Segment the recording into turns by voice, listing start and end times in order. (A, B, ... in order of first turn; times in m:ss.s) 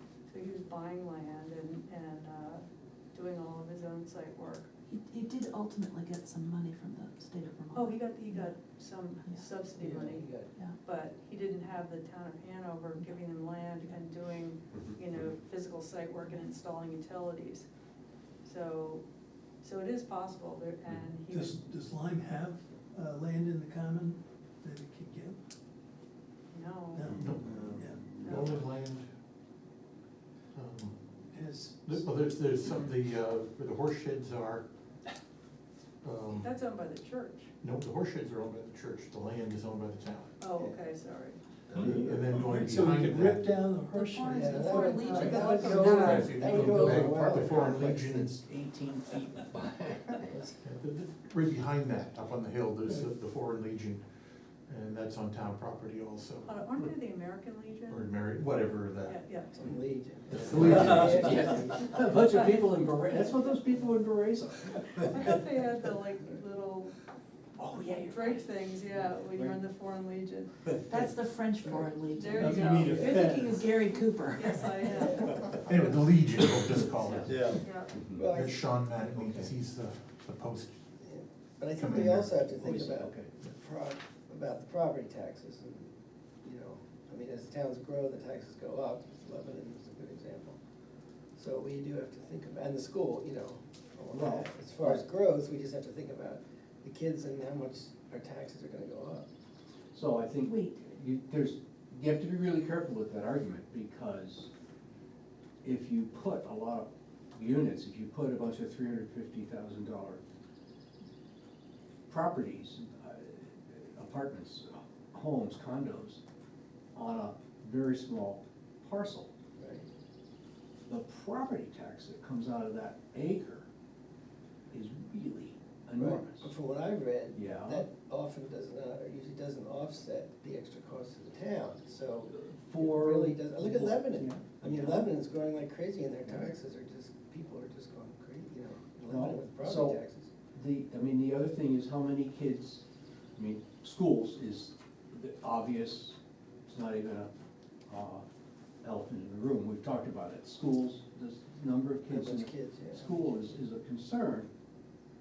0:00.3-0:04.7 A
0:04.9-0:08.5 B
0:07.7-0:10.3 A
0:09.8-0:10.5 C
0:10.8-0:17.7 A
0:18.4-0:19.0 A
0:19.6-0:21.6 A
0:21.3-0:25.4 D
0:26.5-0:27.1 A
0:26.9-0:28.5 D
0:27.1-0:29.1 E
0:27.4-0:27.9 F
0:28.2-0:28.6 A
0:30.5-0:31.0 E
0:31.3-0:32.0 D
0:31.8-0:34.6 E
0:36.0-0:36.5 E
0:36.4-0:37.5 A
0:37.6-0:40.4 E
0:40.4-0:41.4 A
0:40.6-0:40.8 C
0:41.7-0:42.2 C
0:41.7-0:43.6 E
0:42.1-0:45.1 D
0:44.0-0:46.3 B
0:44.0-0:46.4 A
0:44.3-0:48.2 C
0:45.0-0:50.4 F
0:45.3-0:48.4 E
0:50.5-0:54.0 E
0:54.7-0:56.5 E
0:56.4-0:58.1 A
0:57.9-0:59.2 E
0:59.0-0:59.5 A
0:59.5-1:02.3 C
1:00.3-1:01.5 E
1:00.5-1:05.4 F
1:02.1-1:03.5 A
1:05.0-1:07.0 A
1:07.6-1:09.6 F
1:07.8-1:10.5 A
1:10.9-1:15.1 B
1:11.6-1:11.9 C
1:12.2-1:13.2 A
1:12.4-1:13.6 D
1:12.8-1:13.2 C
1:14.3-1:15.4 A
1:15.0-1:15.4 C
1:15.6-1:17.7 E
1:17.0-1:17.9 A
1:17.2-1:18.2 F
1:18.2-1:18.7 C
1:18.3-1:20.8 E
1:19.1-1:19.5 F
1:21.0-1:25.9 C
1:21.8-1:22.3 E
1:22.6-1:23.3 F
1:26.4-1:30.6 C
1:31.4-1:39.2 C
1:34.1-1:35.0 F
1:39.9-1:44.5 F
1:40.4-1:40.8 B
1:45.6-1:50.2 F
1:52.1-1:56.2 F
1:57.0-1:59.3 F
1:59.6-1:59.9 C
2:00.9-2:03.7 F
2:04.7-2:06.5 F
2:06.0-2:20.3 C
2:07.3-2:07.9 F
2:12.3-2:15.1 F
2:19.1-2:20.0 F
2:20.5-2:22.8 F
2:23.4-2:27.3 F
2:27.9-2:28.2 F
2:28.8-2:34.5 F
2:32.1-2:33.4 C